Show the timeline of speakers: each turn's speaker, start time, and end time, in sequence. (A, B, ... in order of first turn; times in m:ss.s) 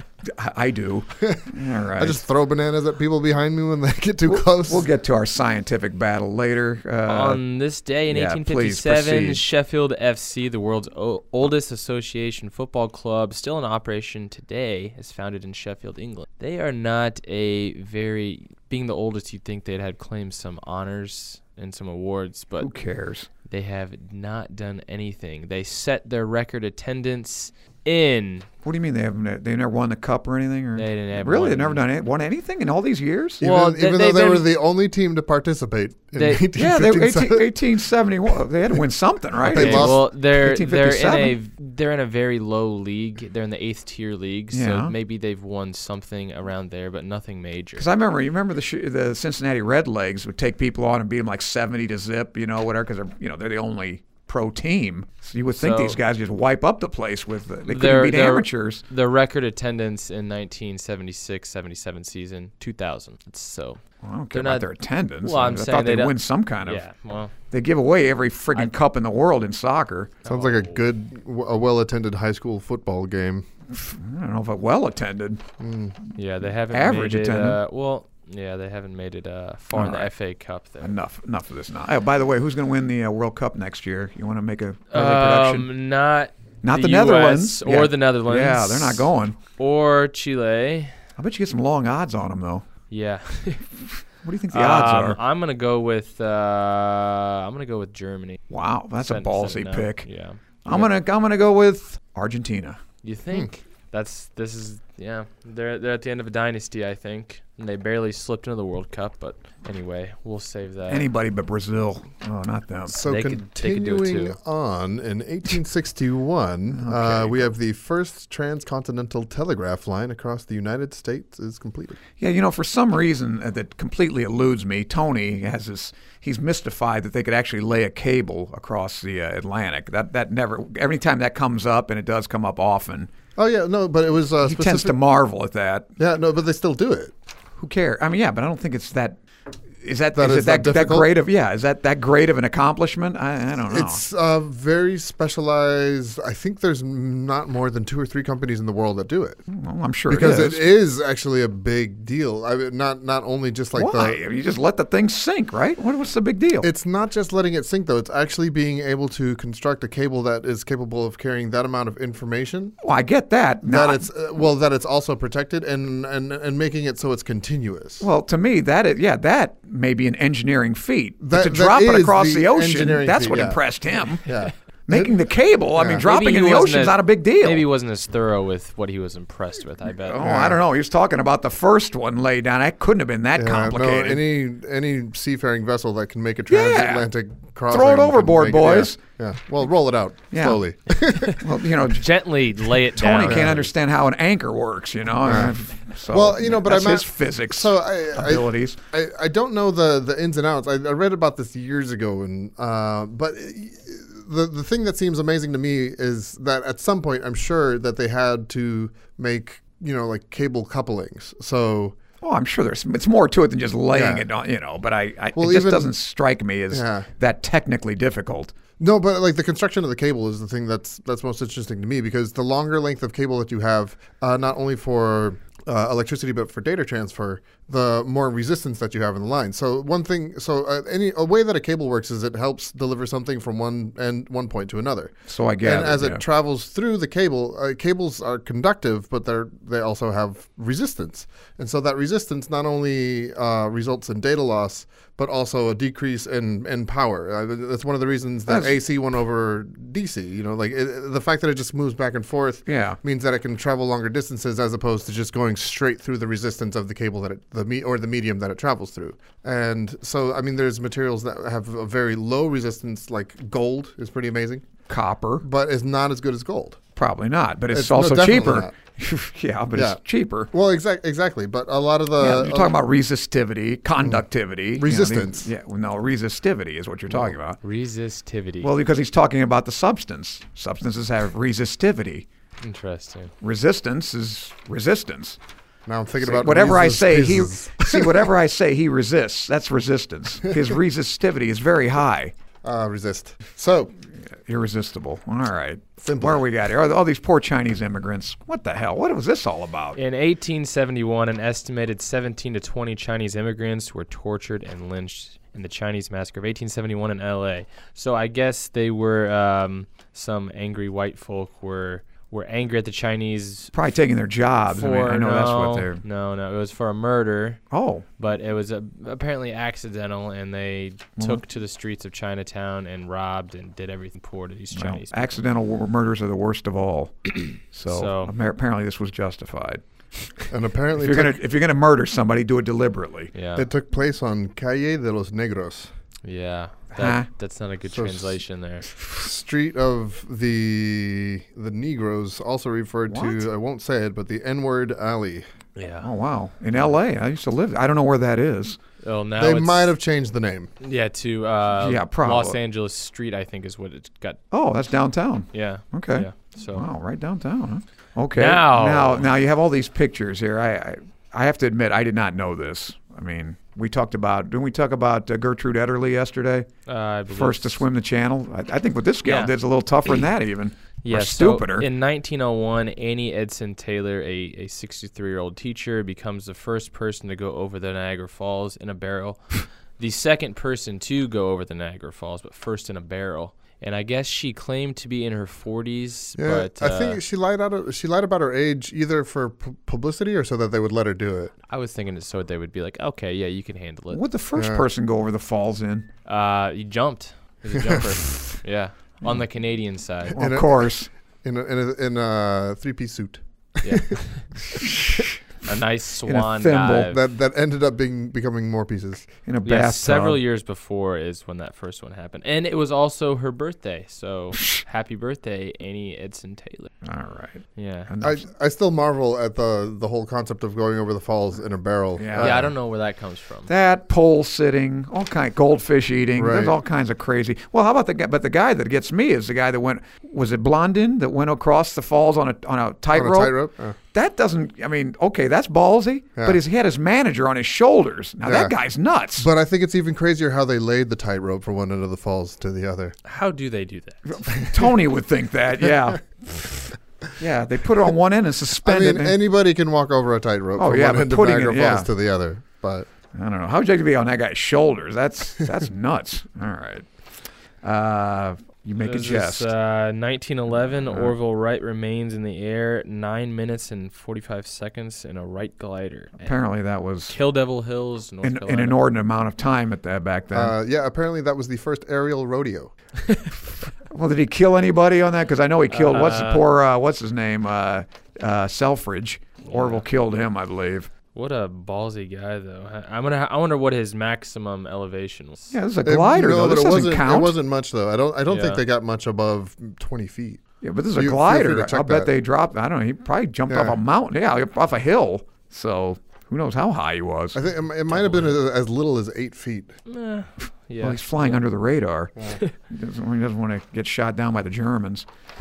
0:00.2-0:02.2 A
0:01.2-0:04.9 B
0:04.2-0:07.4 A
0:07.1-0:22.7 C
0:08.1-0:09.4 A
0:22.6-0:23.3 A
0:23.4-0:28.5 C
0:28.6-0:33.4 A
0:30.8-0:31.8 C
0:33.4-0:37.5 B
0:33.4-0:34.5 C
0:36.2-0:36.5 C
0:36.5-0:41.4 A
0:39.4-0:40.0 B
0:39.5-0:47.9 C
0:44.5-0:45.0 A
0:47.8-0:58.8 A
0:55.6-0:56.0 C
0:57.7-1:03.8 C
1:04.0-1:06.8 A
1:04.3-1:04.7 C
1:05.2-1:07.3 C
1:07.5-1:10.1 A
1:10.2-1:10.8 C
1:10.3-1:13.5 B
1:13.7-1:15.4 A
1:15.6-1:16.0 B
1:16.2-1:21.0 C
1:16.7-1:17.6 A
1:19.7-1:20.1 A
1:20.8-1:25.7 A
1:24.9-1:31.0 C
1:26.6-1:29.4 A
1:31.2-1:32.7 A
1:32.9-1:33.7 C
1:34.2-1:35.2 A
1:34.5-1:38.4 C
1:38.5-1:40.1 A
1:39.0-1:40.9 C
1:40.6-1:42.8 A
1:43.0-1:51.1 C
1:50.9-1:53.0 A
1:52.9-1:54.4 C
1:52.9-2:02.0 B
1:56.7-1:57.5 A
2:02.2-2:13.1 A
2:13.4-2:15.0 B
2:14.4-2:15.9 A
2:16.0-2:17.1 B
2:17.6-2:19.2 A
2:19.8-2:24.0 A
2:20.2-2:21.1 B
2:23.7-2:29.4 B
2:29.5-2:30.6 A
2:30.1-2:34.2 B
2:33.7-2:36.7 A
2:36.6-2:42.8 B
2:42.8-2:44.1 A
2:43.6-2:48.1 B
2:48.0-2:54.3 A
2:51.2-2:53.6 B
2:54.2-2:55.1 B
2:54.9-2:57.7 A
2:55.8-2:56.1 B
2:56.0-3:00.2 C
3:00.0-3:04.2 A
3:00.2-3:00.6 B
3:03.4-3:11.5 B
3:06.5-3:07.1 A
3:07.7-3:09.0 A
3:10.3-3:10.6 A
3:11.3-3:13.7 C
3:11.3-3:12.1 A
3:13.0-3:18.8 A
3:13.2-3:13.6 B
3:15.2-3:15.6 B
3:16.1-3:32.0 B
3:32.2-3:38.5 A
3:33.9-3:34.3 B
3:35.4-3:35.9 B
3:36.7-3:37.1 B
3:38.8-4:24.7 B
3:55.3-3:56.2 A
4:08.5-4:08.8 A
4:12.7-4:13.0 A
4:24.9-4:25.4 A
4:25.4-4:26.8 B
4:27.0-4:30.5 A
4:27.7-4:28.7 B
4:29.7-4:30.0 B
4:30.5-4:32.7 B
4:32.2-4:37.6 A
4:34.8-4:35.5 B
4:37.6-4:38.7 C
4:38.6-4:42.3 A
4:42.6-4:43.3 C
4:43.4-4:45.4 A
4:45.9-4:48.3 B
4:46.2-4:52.3 A
4:52.6-4:53.9 B
4:54.2-5:00.0 A
4:56.0-4:56.4 B
5:00.0-5:13.7 C
5:13.7-5:16.0 A
5:14.7-5:17.6 C
5:17.7-5:18.1 A
5:18.2-5:25.4 C
5:21.2-5:21.4 A
5:24.7-5:29.8 A
5:27.9-5:28.3 C
5:30.4-5:33.3 A
5:30.5-5:31.4 B
5:33.3-5:33.7 C
5:33.6-5:35.9 B
5:36.2-5:38.9 C
5:36.9-5:37.3 A
5:37.9-5:38.4 B
5:39.0-5:45.4 B
5:43.1-5:43.5 A
5:45.8-5:46.1 C
5:46.0-5:48.8 A
5:49.0-5:49.9 C
5:49.4-5:50.7 B
5:50.8-5:54.4 C
5:51.8-5:52.6 A
5:54.5-6:06.7 A
5:55.5-5:56.9 C
5:58.4-5:59.3 C
6:06.9-6:07.8 C
6:07.3-6:11.9 A
6:09.2-6:09.5 C
6:11.0-6:27.2 C
6:26.4-6:31.5 B
6:31.7-6:34.2 C
6:34.1-6:36.1 A
6:34.6-6:34.8 B
6:36.2-6:40.4 C
6:37.8-6:38.1 B
6:40.3-6:41.1 A
6:40.3-6:44.2 B
6:43.8-6:44.5 C
6:44.8-6:45.4 A
6:45.6-6:47.2 C
6:46.2-6:47.1 A
6:47.1-6:49.3 B
6:49.5-6:50.4 A
6:49.6-6:56.9 C
6:57.0-6:58.5 A
6:57.8-6:58.1 C
6:58.2-7:02.7 B
7:02.2-7:02.7 A
7:02.4-7:03.7 C
7:03.7-7:13.6 A
7:06.4-7:06.8 B
7:13.1-7:14.0 B
7:14.1-7:19.5 A
7:18.4-7:18.7 B
7:19.4-7:23.2 B
7:23.2-7:24.3 C
7:24.3-7:26.7 A
7:24.5-7:24.9 B
7:27.4-7:29.4 A
7:28.8-7:33.1 B
7:30.8-7:32.1 A
7:33.4-7:37.1 A
7:37.8-7:39.7 A
7:39.0-7:46.6 C
7:40.9-7:41.3 A
7:46.4-7:47.4 A
7:47.3-7:49.0 C
7:48.4-7:50.8 A
7:50.5-7:52.9 B
7:54.1-8:01.1 A
7:55.9-7:56.7 C
7:59.7-8:00.0 C
8:01.3-8:05.8 C
8:05.7-8:07.6 A
8:06.0-8:10.6 B
8:08.5-8:08.8 C
8:10.8-8:17.6 A
8:11.1-8:12.3 B
8:13.7-8:14.0 B
8:17.5-8:20.0 B
8:18.1-8:18.4 A
8:18.3-8:18.5 C
8:20.1-8:21.6 C
8:21.0-8:25.3 A